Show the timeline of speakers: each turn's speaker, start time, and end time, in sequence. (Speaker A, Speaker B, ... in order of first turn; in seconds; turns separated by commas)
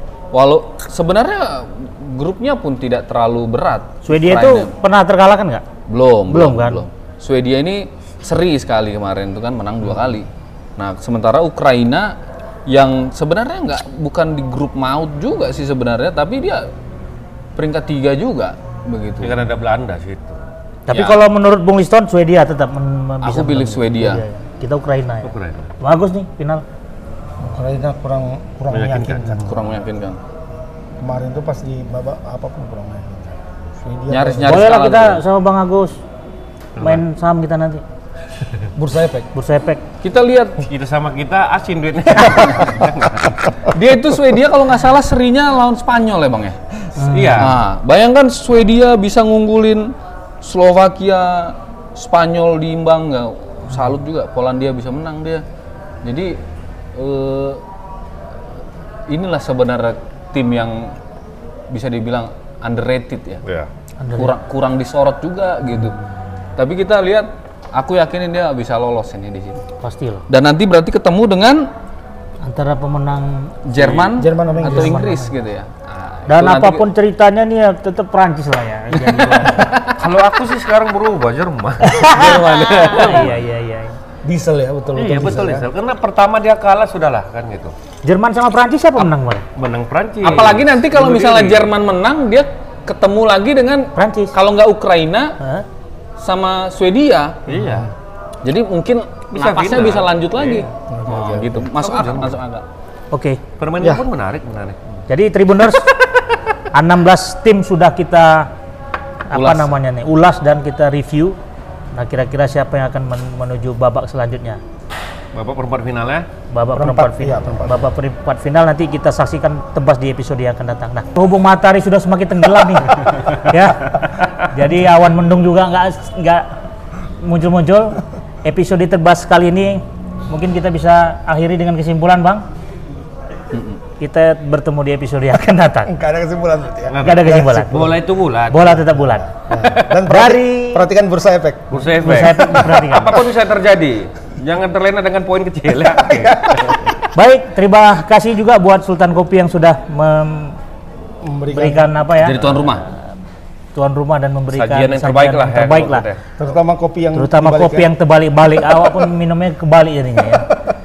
Speaker A: 0.3-4.7, Speaker B: 4.0-5.6, Speaker A: 5.9-16.7, Speaker B: 6.3-6.8, Speaker A: 17.6-19.4, Speaker C: 19.2-20.4, Speaker B: 20.9-26.6, Speaker A: 20.9-21.2, Speaker A: 23.2-24.2, Speaker C: 25.2-25.7, Speaker D: 27.4-29.8, Speaker C: 28.7-29.4, Speaker A: 29.4-30.2, Speaker D: 31.0-34.7, Speaker A: 34.1-35.2, Speaker B: 34.4-36.0, Speaker B: 36.8-37.8, Speaker D: 38.8-39.3, Speaker B: 39.3-39.8, Speaker A: 40.0-40.6, Speaker C: 40.6-43.3, Speaker A: 42.4-42.7, Speaker A: 43.6-46.5, Speaker B: 47.0-47.5, Speaker C: 47.0-47.6, Speaker A: 47.4-55.4, Speaker A: 56.0-56.4, Speaker A: 56.9-57.6, Speaker A: 59.1-60.9, Speaker A: 61.7-63.4, Speaker B: 64.0-64.3, Speaker A: 64.2-66.0, Speaker A: 66.6-69.6, Speaker B: 69.8-70.2, Speaker A: 70.3-71.7, Speaker B: 72.4-73.5, Speaker A: 73.7-76.8, Speaker C: 73.7-74.1, Speaker D: 74.1-75.0, Speaker B: 74.6-75.3, Speaker B: 76.3-79.7, Speaker A: 79.0-79.9, Speaker C: 80.0-83.4, Speaker B: 81.8-84.0, Speaker A: 82.0-83.3, Speaker D: 84.2-85.7, Speaker C: 84.9-87.7, Speaker B: 88.0-89.5, Speaker C: 89.0-91.7, Speaker A: 90.2-95.3, Speaker B: 93.9-94.3, Speaker B: 95.4-95.6, Speaker A: 96.2-97.4, Speaker C: 97.5-97.9, Speaker D: 97.5-97.9, Speaker A: 98.4-102.7, Speaker C: 99.3-102.4, Speaker D: 100.9-101.7, Speaker B: 103.1-103.4, Speaker C: 103.6-104.8, Speaker D: 103.8-104.0, Speaker B: 105.1-105.9, Speaker B: 106.7-108.5, Speaker B: 109.3-111.4, Speaker A: 109.3-109.7, Speaker B: 111.9-114.6, Speaker C: 115.3-116.2, Speaker B: 116.5-126.5, Speaker D: 116.7-117.9, Speaker B: 127.2-132.4, Speaker A: 133.5-133.8, Speaker B: 134.0-135.9, Speaker D: 135.9-138.0, Speaker C: 136.9-138.8, Speaker B: 137.0-137.9, Speaker B: 138.5-139.2, Speaker D: 138.6-141.8, Speaker B: 140.1-140.8, Speaker C: 141.7-146.9, Speaker B: 142.0-143.2, Speaker D: 146.0-146.7, Speaker B: 147.1-150.6, Speaker D: 151.2-151.9, Speaker B: 151.5-153.0, Speaker A: 152.2-152.8, Speaker B: 153.7-156.0, Speaker C: 154.5-156.2, Speaker D: 156.4-157.9, Speaker B: 157.1-160.5